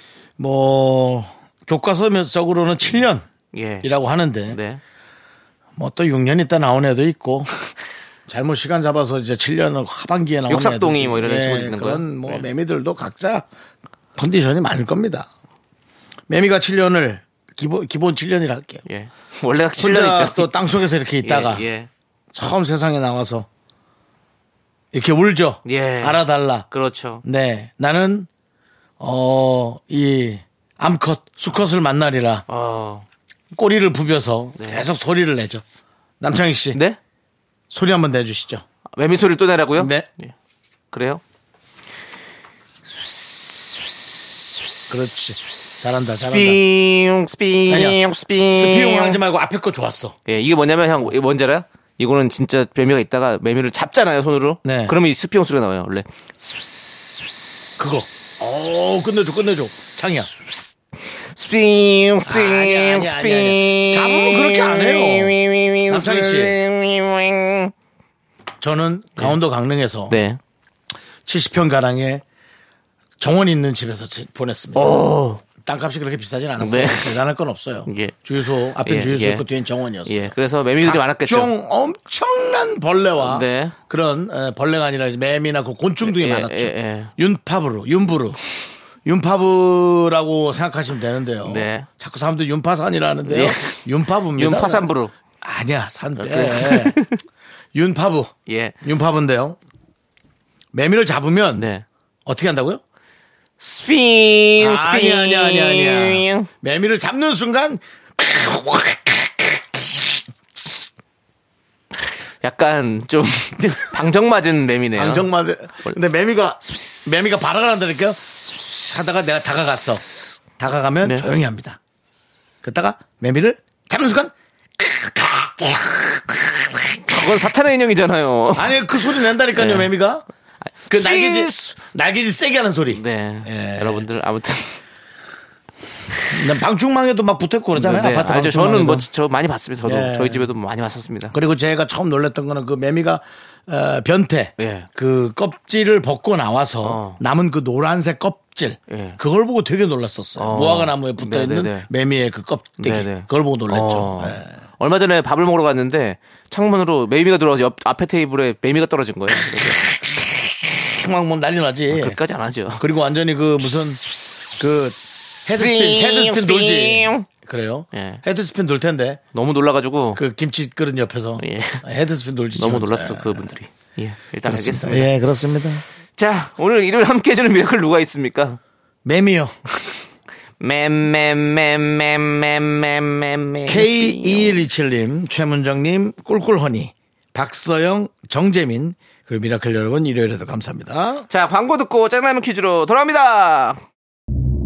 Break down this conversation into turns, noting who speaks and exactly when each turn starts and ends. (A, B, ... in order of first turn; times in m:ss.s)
0:00.4-0:03.2 A
0:03.5-0:03.9 B
0:03.8-0:04.6 A
0:04.5-0:04.8 B
0:05.8-0:07.5 A
0:08.3-0:13.4 A
0:10.5-0:12.4 B
0:14.2-0:15.3 A
0:16.3-0:18.8 A
0:18.8-0:20.5 B
0:19.8-0:21.6 A
0:21.2-0:21.9 B
0:22.3-0:23.5 A
0:24.9-0:26.6 A
0:25.6-0:27.2 B
0:27.2-0:28.3 A
0:29.0-0:32.4 A
0:32.5-0:33.0 B
0:33.5-0:35.6 A
0:34.6-0:34.8 B
0:36.2-0:36.8 A
0:37.7-0:38.6 A
0:39.0-0:40.3 B
0:39.8-0:40.1 A
0:40.9-0:41.2 B
0:42.9-0:44.1 B
0:44.9-0:46.6 A
0:46.0-0:49.2 B
0:47.7-0:48.0 A
0:48.5-0:50.2 A
0:50.3-0:57.3 B
0:54.6-0:55.0 A
0:57.8-1:00.3 A
1:01.2-1:07.7 B
1:02.2-1:05.4 A
1:05.9-1:06.6 A
1:08.6-1:10.2 A
1:10.1-1:10.4 B
1:11.2-1:12.2 A
1:13.2-1:15.0 A
1:14.7-1:15.4 B
1:15.6-1:28.4 A
1:16.6-1:17.2 B
1:17.8-1:18.1 B
1:18.8-1:19.4 B
1:20.0-1:21.5 B
1:23.2-1:23.8 B
1:26.0-1:27.1 B
1:29.0-1:34.9 A
1:31.4-1:31.9 B
1:33.3-1:33.8 B
1:34.3-1:35.1 B
1:35.4-1:37.0 A
1:36.2-1:37.2 B
1:37.7-1:39.6 A
1:38.5-1:38.8 B
1:40.7-1:41.7 A
1:41.6-1:41.8 B
1:42.2-1:42.8 A
1:43.6-1:46.5 B
1:44.6-1:50.0 A
1:52.4-1:55.3 B
1:54.9-2:00.0 A
2:00.6-2:01.8 A
2:01.0-2:01.3 B
2:02.6-2:07.0 A
2:07.0-2:08.8 B
2:08.5-2:10.2 A
2:09.5-2:09.9 B
2:10.9-2:11.8 B
2:10.9-2:14.0 A
2:12.9-2:14.8 B
2:16.3-2:19.0 A
2:17.7-2:21.3 B
2:19.8-2:20.5 A
2:21.3-2:34.6 A
2:24.6-2:24.9 B
2:26.8-2:27.2 B
2:28.9-2:29.2 B
2:30.4-2:31.9 B
2:32.8-2:40.0 B
2:40.0-2:42.2 A
2:41.9-2:42.8 B
2:42.8-2:49.2 A
2:45.5-2:47.3 B
2:47.9-2:48.2 B
2:49.3-2:50.2 B
2:50.1-2:53.5 A
2:51.4-2:51.8 B
2:52.6-2:55.1 B
2:54.4-2:55.8 A
2:56.2-2:58.6 B
2:59.0-2:59.5 A
3:00.6-3:04.6 B
3:03.7-3:11.2 A
3:11.3-3:13.8 B